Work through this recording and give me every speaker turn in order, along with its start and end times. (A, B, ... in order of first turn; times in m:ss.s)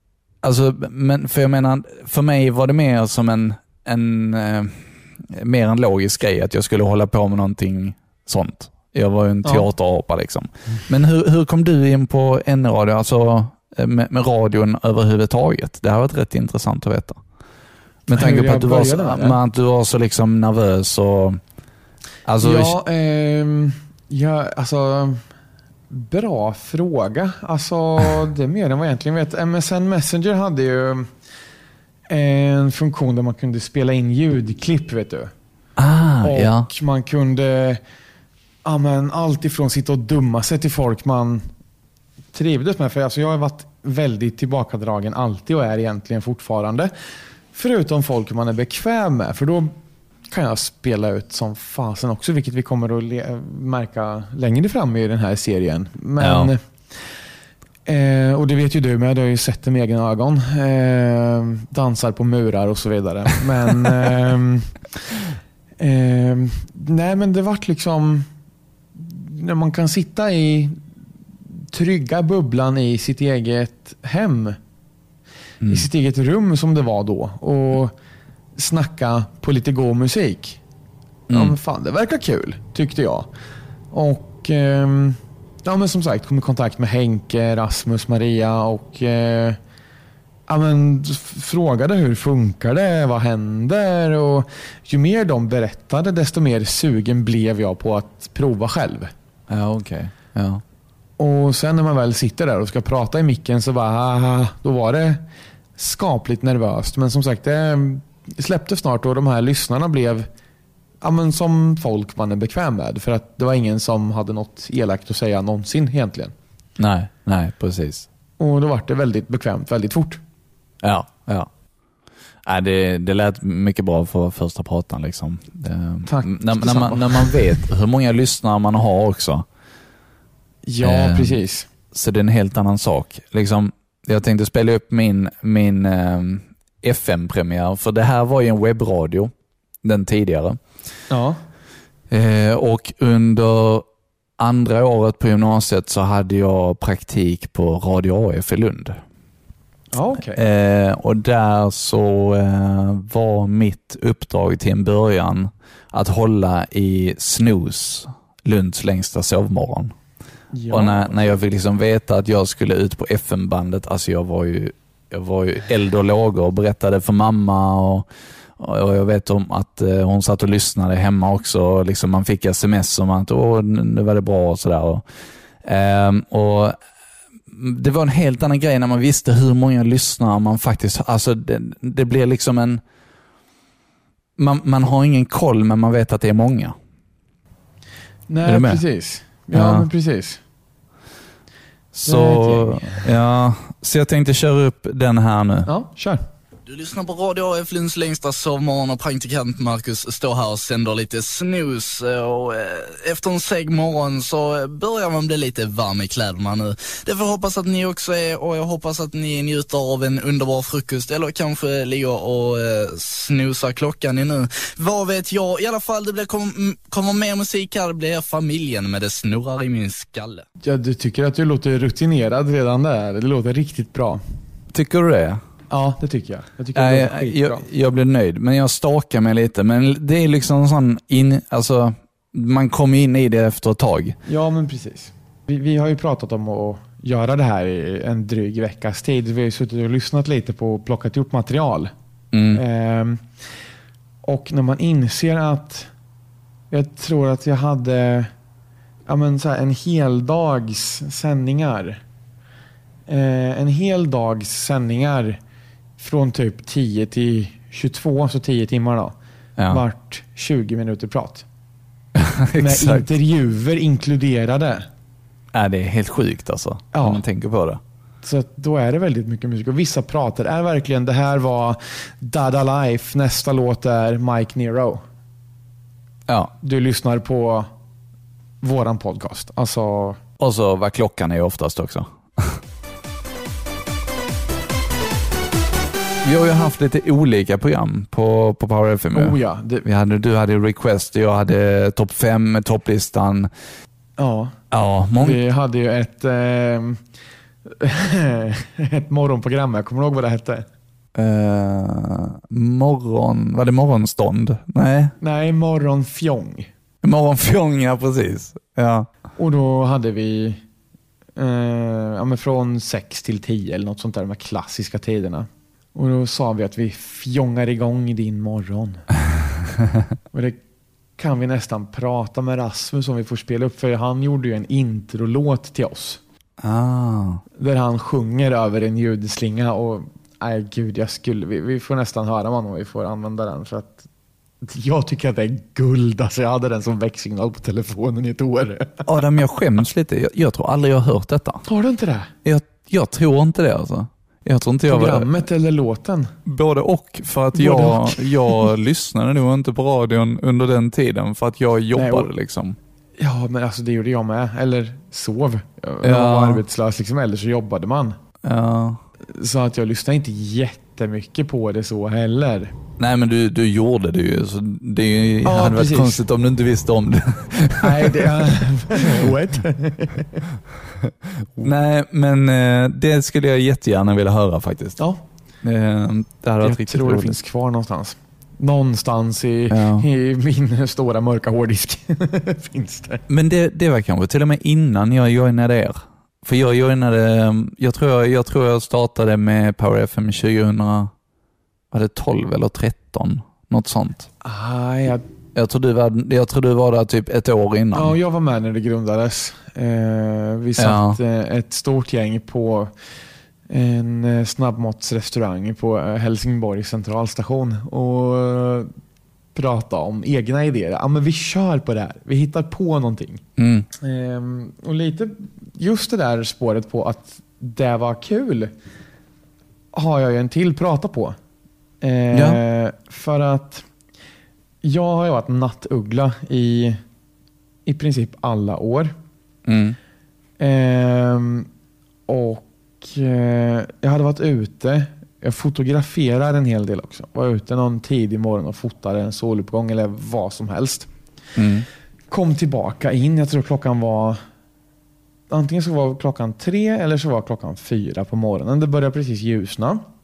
0:00.4-0:17.2 A
0:18.1-0:21.4 A
0:18.1-0:19.4 B
0:22.2-0:22.7 A
0:22.4-0:25.2 B
0:25.9-0:31.1 B
0:32.1-0:35.3 B
0:35.8-0:36.7 A
0:36.2-0:37.8 B
0:38.6-0:41.5 B
0:42.3-0:46.9 B
0:47.5-0:49.7 B
0:50.3-0:56.6 B
0:56.2-0:56.5 A
0:57.9-1:04.8 B
1:05.8-1:08.3 B
1:09.0-1:10.8 B
1:11.7-1:14.6 B
1:15.6-1:15.9 A
1:15.7-1:17.9 B
1:18.6-1:20.6 B
1:21.3-1:21.5 A
1:21.3-1:23.3 B
1:23.9-1:29.6 B
1:30.5-1:39.1 B
1:39.5-1:40.6 A
1:41.2-1:45.2 B
1:45.8-1:50.3 B
1:51.0-1:56.3 B
1:56.8-1:58.1 A
1:58.4-2:00.2 B
2:00.8-2:01.5 A
2:02.4-2:09.4 A
2:06.0-2:07.6 B
2:10.6-2:11.7 B
2:10.8-2:11.4 A
2:11.9-2:19.3 A
2:19.8-2:20.6 A
2:21.1-2:21.4 B
2:22.1-2:23.8 A
2:24.4-2:29.0 A
2:29.9-2:30.4 B
2:30.3-2:39.9 A
2:40.5-2:41.4 B
2:40.7-2:48.1 A
2:48.6-2:55.0 A
2:55.6-2:56.8 A
2:57.5-3:02.8 A
3:04.4-3:06.7 A
3:08.3-3:10.4 B
3:08.4-3:08.8 A
3:09.5-3:09.8 A
3:11.9-3:15.7 A
3:12.0-3:13.1 B
3:15.6-3:16.2 B
3:16.6-3:40.4 C
3:40.6-3:44.2 B
3:44.7-3:45.4 A
3:45.7-3:47.6 B
3:46.7-3:54.2 A
3:54.2-4:01.9 B
4:02.3-4:02.6 A
4:02.5-4:03.2 B
4:04.2-4:05.9 B
4:06.7-4:08.3 B
4:09.1-4:12.0 B
4:13.1-4:15.4 B
4:16.0-4:19.1 B
4:19.6-4:19.8 A
4:19.7-4:21.4 B
4:22.2-4:23.0 A
4:22.6-4:24.9 B
4:25.5-4:27.8 A
4:26.9-4:27.2 B
4:28.2-4:35.0 B
4:36.6-4:37.7 B
4:38.6-4:40.2 B
4:40.4-4:42.6 A
4:46.2-4:53.5 A
4:49.1-4:49.8 B
4:54.2-4:54.6 B
4:54.7-4:55.4 A
4:55.1-4:57.0 B
4:57.7-5:00.7 B
5:01.1-5:05.1 A
5:05.2-5:06.7 B
5:07.0-5:09.1 A
5:09.4-5:10.6 B
5:11.4-5:19.0 B
5:20.3-5:20.6 B
5:21.2-5:26.2 B
5:26.6-5:27.4 A
5:27.6-5:34.0 B
5:34.6-5:39.1 B
5:39.0-5:41.6 A
5:41.6-5:42.3 B
5:42.4-5:45.3 A
5:44.9-5:46.3 B
5:46.4-5:52.8 A
5:47.5-5:48.6 B
5:52.0-5:52.3 B
5:53.2-5:58.2 B
5:56.0-5:56.6 A
5:58.4-5:59.0 A
5:59.3-6:02.7 B
6:03.0-6:08.4 A
6:05.4-6:06.2 B
6:07.8-6:10.4 B
6:11.6-6:15.0 A
6:15.6-6:17.4 A
6:16.6-6:23.2 B
6:19.7-6:20.0 A
6:23.3-6:31.1 A
6:31.9-6:34.3 A
6:34.4-6:35.2 B
6:35.5-6:38.1 A
6:37.9-6:42.9 B
6:40.8-6:41.2 A
6:43.7-6:48.9 B
6:49.5-6:53.4 B
6:53.6-6:53.9 A
6:54.0-6:58.7 B
6:59.9-7:01.4 B
7:02.0-7:03.8 B
7:02.3-7:02.6 A
7:04.8-7:07.0 B
7:07.8-7:09.1 B
7:09.6-7:10.0 A
7:10.6-7:11.7 B
7:12.3-7:21.1 B
7:21.6-7:21.8 A
7:22.3-7:24.4 B
7:25.5-7:30.0 B